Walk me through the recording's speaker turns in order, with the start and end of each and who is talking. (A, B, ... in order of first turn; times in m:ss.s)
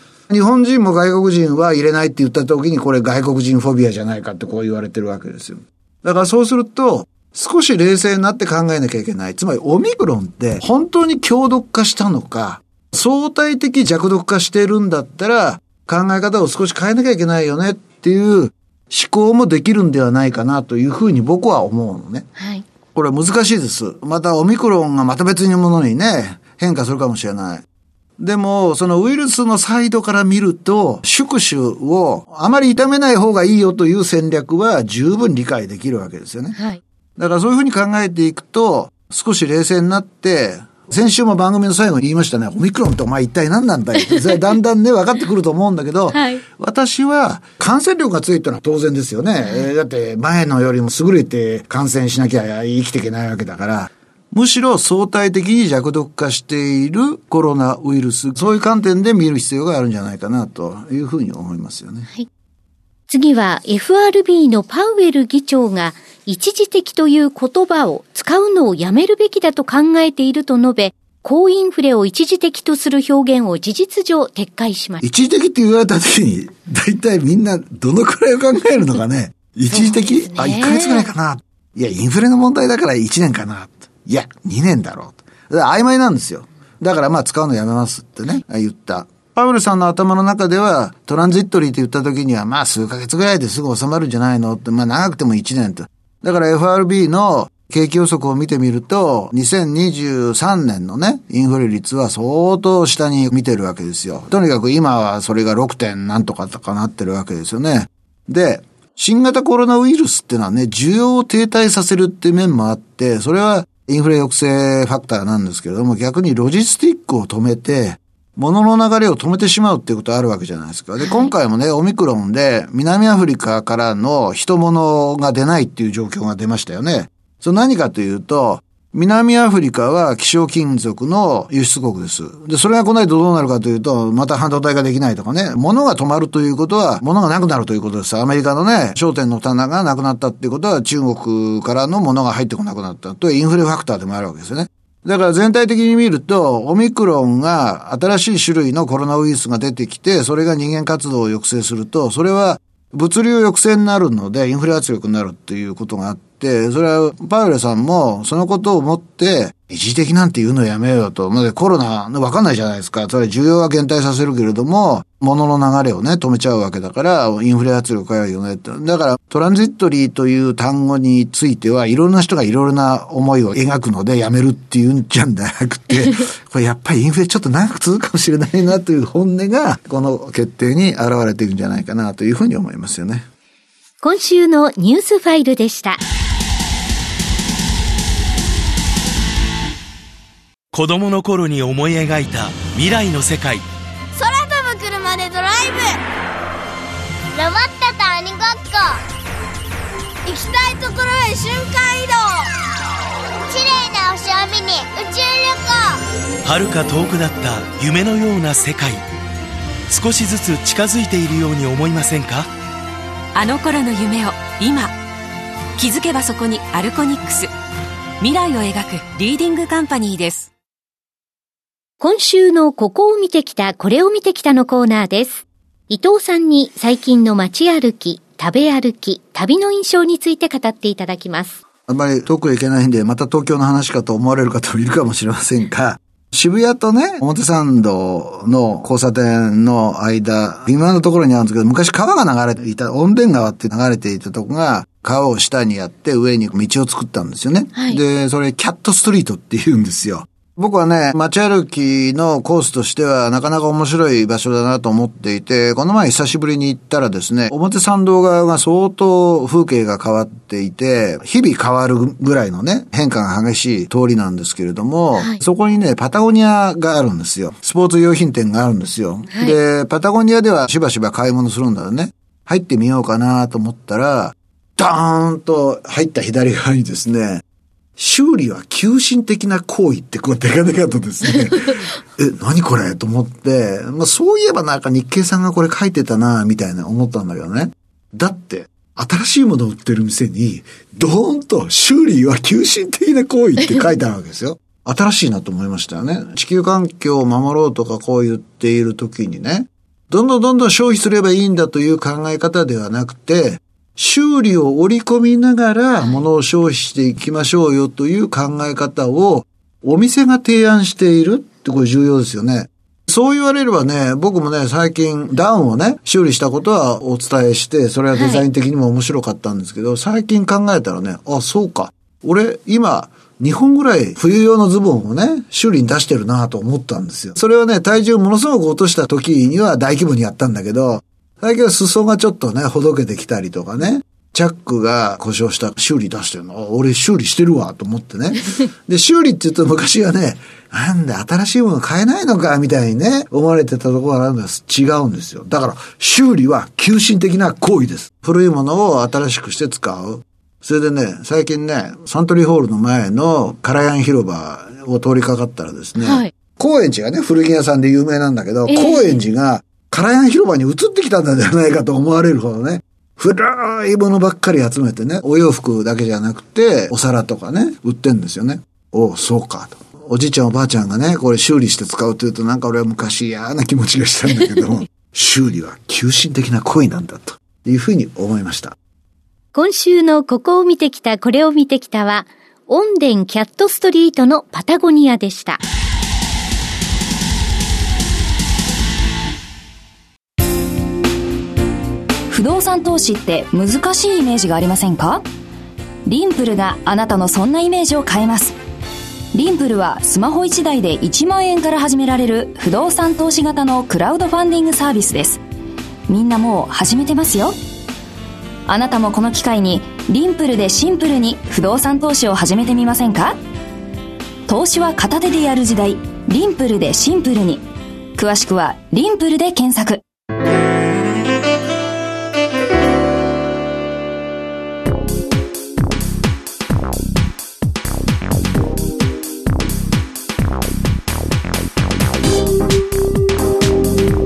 0:00.3-0:22.3 A
0:22.4-0:22.6 B
0:22.9-0:27.6 A
0:28.2-0:36.6 A
0:36.6-0:36.8 B
0:37.2-1:02.1 A
0:46.1-0:46.4 B
0:49.4-0:49.7 B
1:03.1-1:15.0 B
1:15.0-3:03.2 A
1:19.7-1:21.1 B
2:01.0-2:01.3 B
3:04.0-3:06.0 B
3:10.7-3:13.6 C
3:14.1-3:16.0 D
3:17.3-3:19.0 D
3:20.3-3:22.6 D
3:23.5-3:26.0 D
3:26.4-3:29.0 C
3:29.9-3:32.5 C
3:33.3-3:35.0 E
3:35.8-3:37.5 E
3:38.2-3:40.5 E
3:42.0-3:51.6 B
3:51.9-4:37.4 A
4:07.8-4:08.0 B
4:25.2-4:25.4 B
4:29.3-4:29.6 B
4:38.0-6:18.8 A
5:18.1-5:18.4 B
5:56.0-5:56.3 B
5:58.7-5:59.2 B
6:19.5-6:25.6 B
6:32.3-6:35.2 F
6:36.1-6:38.6 F
6:39.3-6:45.4 F
6:46.1-6:47.6 F
6:48.7-6:53.4 F
6:54.5-6:57.6 F
6:58.2-7:00.0 F